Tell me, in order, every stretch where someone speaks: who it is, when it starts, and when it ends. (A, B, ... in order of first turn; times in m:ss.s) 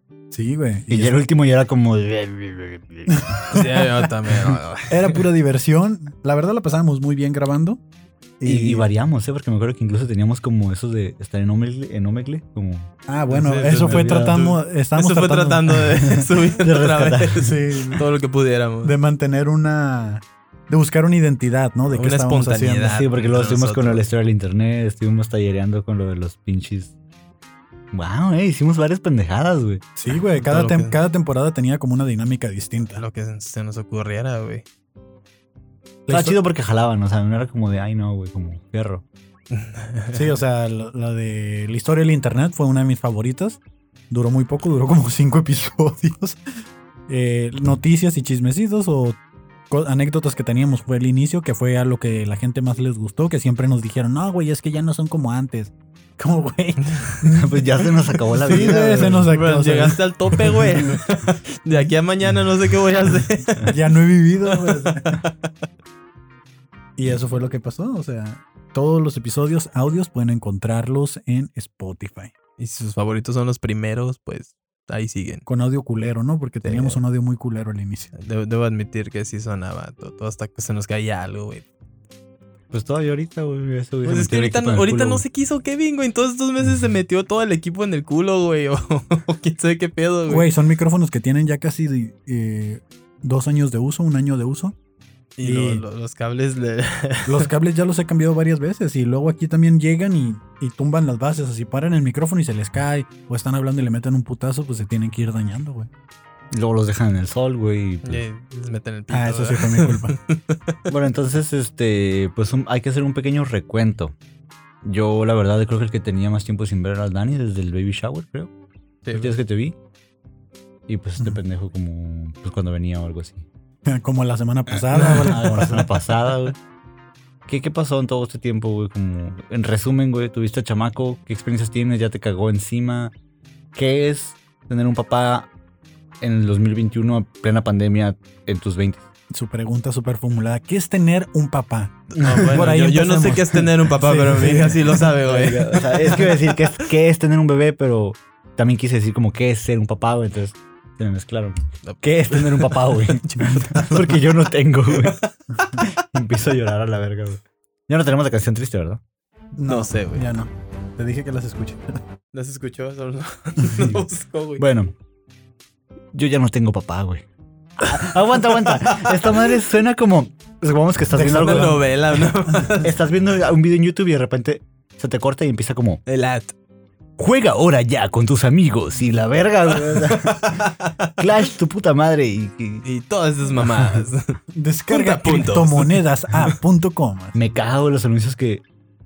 0:00.3-0:01.2 A
0:00.9-0:03.1 B
0:03.1-0:03.9 A
0:03.5-0:05.2 C
0:04.5-0:07.8 A
0:08.4-0:08.8 A
0:08.4-0:12.9 B
0:13.1-0:16.0 A
0:13.3-0:18.9 C
0:13.7-0:14.5 B
0:16.1-0:17.5 B
0:17.4-0:18.0 A
0:18.8-0:23.0 A
0:21.9-0:24.1 C
0:22.9-0:26.9 B
0:27.9-0:29.8 B
0:30.0-0:33.0 A
0:30.4-0:30.9 C
0:33.0-0:34.6 C
0:36.1-0:36.4 A
0:36.1-0:39.0 B
0:39.5-0:40.2 C
0:40.1-0:46.4 A
0:47.1-0:49.2 A
0:49.7-1:01.0 A
0:57.3-0:59.3 B
0:58.5-0:58.8 C
0:59.3-1:03.7 C
1:03.7-1:05.2 A
1:04.5-1:05.5 C
1:07.0-1:12.3 A
1:12.6-1:15.4 C
1:15.5-1:18.1 A
1:16.6-1:17.0 C
1:18.2-1:21.6 C
1:22.7-1:25.2 B
1:24.0-1:30.5 C
1:30.3-1:34.8 A
1:35.4-1:37.5 C
1:35.4-1:35.8 A
1:37.3-1:45.9 A
1:46.5-1:48.2 B
1:48.0-1:50.8 C
1:49.1-1:50.2 A
1:50.9-1:54.2 B
1:54.8-1:58.5 B
1:59.0-1:59.3 C
1:59.1-1:59.8 B
2:00.9-2:03.5 B
2:03.9-2:05.9 A
2:04.9-2:06.6 B
2:07.5-2:13.1 B
2:13.8-2:15.5 B
2:16.2-2:19.1 B
2:19.3-2:25.1 A
2:22.1-2:26.2 C
2:22.2-2:22.6 B
2:25.2-2:35.2 B
2:31.8-2:33.8 C
2:34.9-2:35.4 C
2:35.8-2:39.0 B
2:39.6-2:42.0 A
2:39.7-2:40.3 C
2:42.3-2:44.6 C
2:44.6-2:44.9 B
2:46.1-2:47.3 B
2:47.8-2:51.8 B
2:51.1-2:51.8 A
2:51.2-2:52.9 C
2:52.8-2:56.0 B
2:56.1-2:56.5 C
2:57.2-3:00.6 B
2:59.7-3:01.2 C
3:01.2-3:02.8 B
3:02.8-3:04.4 C
3:04.5-3:07.4 A
3:04.9-3:06.5 C
3:07.3-3:08.6 B